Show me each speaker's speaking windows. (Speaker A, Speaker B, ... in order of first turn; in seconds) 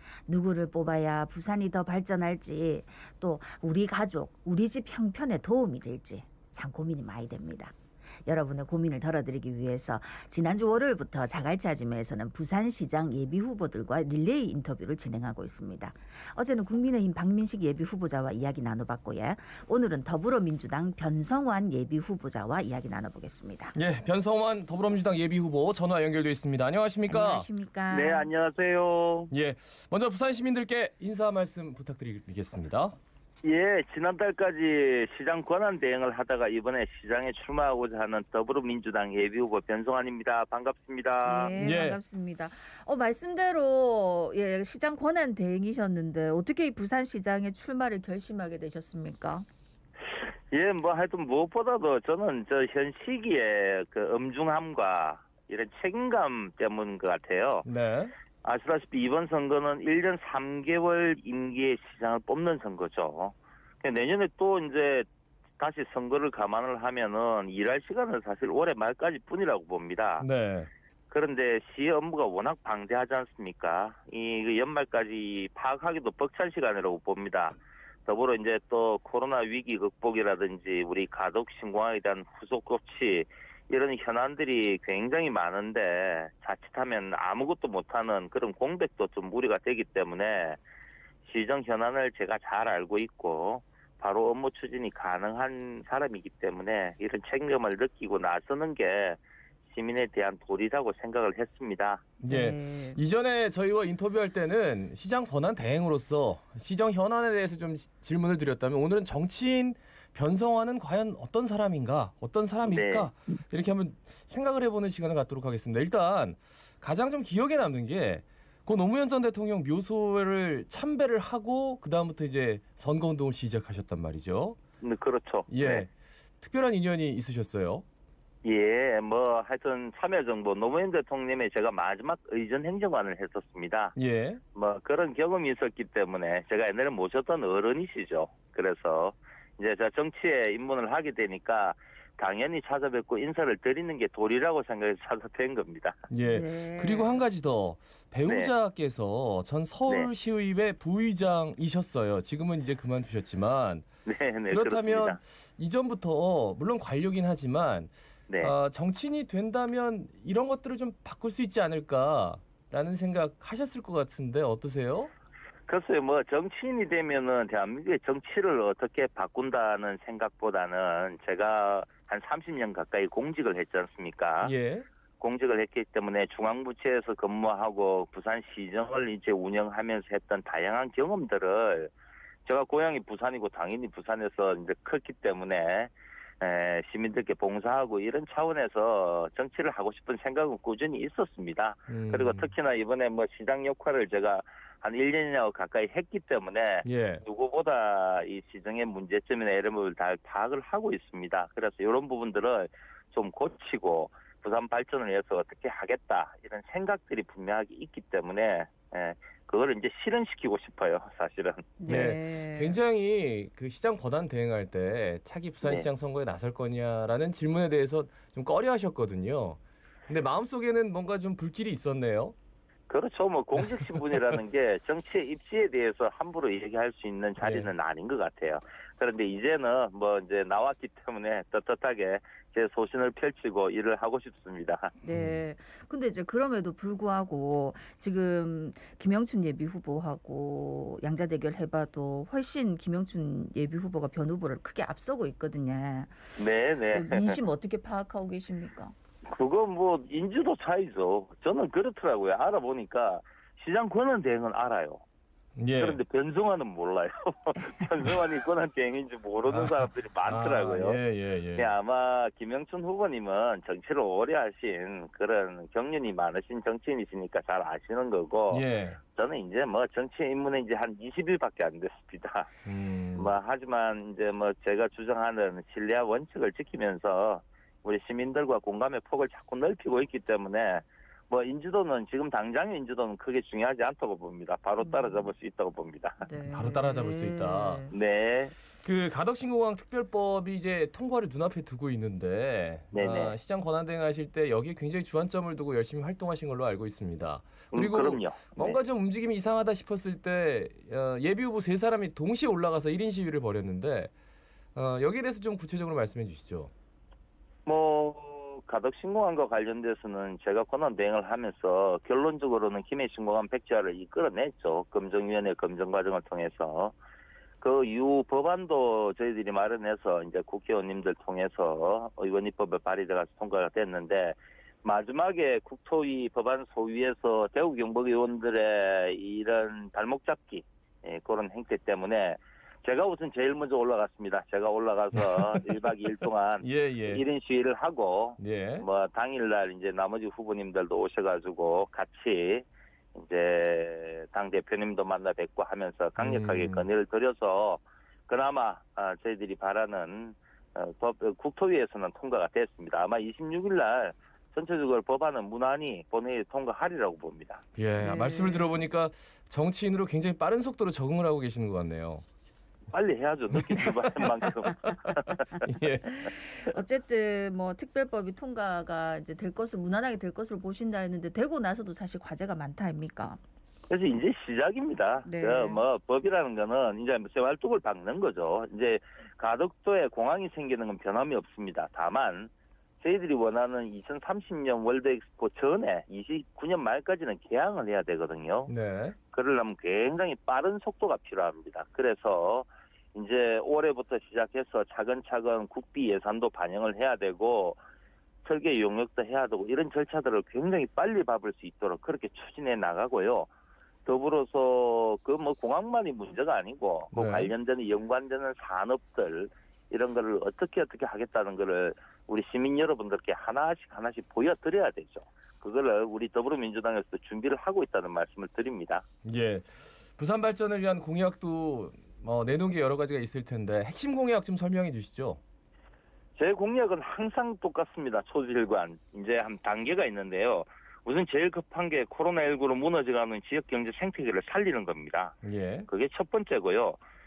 Speaker A: 0.3-7.7, 8.3-23.8, 27.1-28.3, 41.2-49.5, 102.2-103.0, 146.2-147.2, 211.8-212.8, 235.0-246.4, 246.9-248.9, 284.8-285.3, 286.2-287.9, 358.0-358.8, 366.1-373.4, 375.2-375.8
Speaker B: 23.8-27.5, 29.3-33.0, 41.6-42.0, 57.6-58.1, 70.2-70.7, 102.2-124.6, 125.5-127.8, 134.0-134.4, 146.1-153.9, 154.5-165.1, 174.4-174.9, 191.9-192.5, 196.8-197.2, 211.9-222.3, 227.4-227.7, 235.1-235.4, 255.6-256.0, 259.5-261.7, 268.5-269.0, 272.6-273.3, 286.4-287.9, 288.8-304.1, 304.8-306.7, 335.1-335.8, 336.6-337.2, 338.4-338.9, 346.2-346.9, 357.8-362.2, 365.6-366.1, 388.7-389.2, 407.1-407.5, 419.2-425.4, 435.4-435.9
Speaker C: 27.9-29.3, 33.4-41.5, 50.2-57.7, 58.4-65.1, 65.6-70.3, 71.1-90.6, 91.3-102.1, 112.7-113.1, 124.8-125.9, 128.4-134.0, 134.6-146.0, 148.3-148.5, 154.1-155.2, 158.3-158.5, 165.7-174.5, 175.2-181.9, 182.5-212.0, 222.9-234.9, 246.4-247.4, 249.3-255.0, 255.8-261.0, 261.6-272.5, 273.1-286.3, 287.9-288.5, 292.9-293.4, 297.7-298.8, 307.7-316.9, 317.6-357.6, 362.9-365.7, 373.9-382.5, 383.0-388.7, 389.3-397.8, 398.4-403.5, 404.1-419.0, 426.4-437.0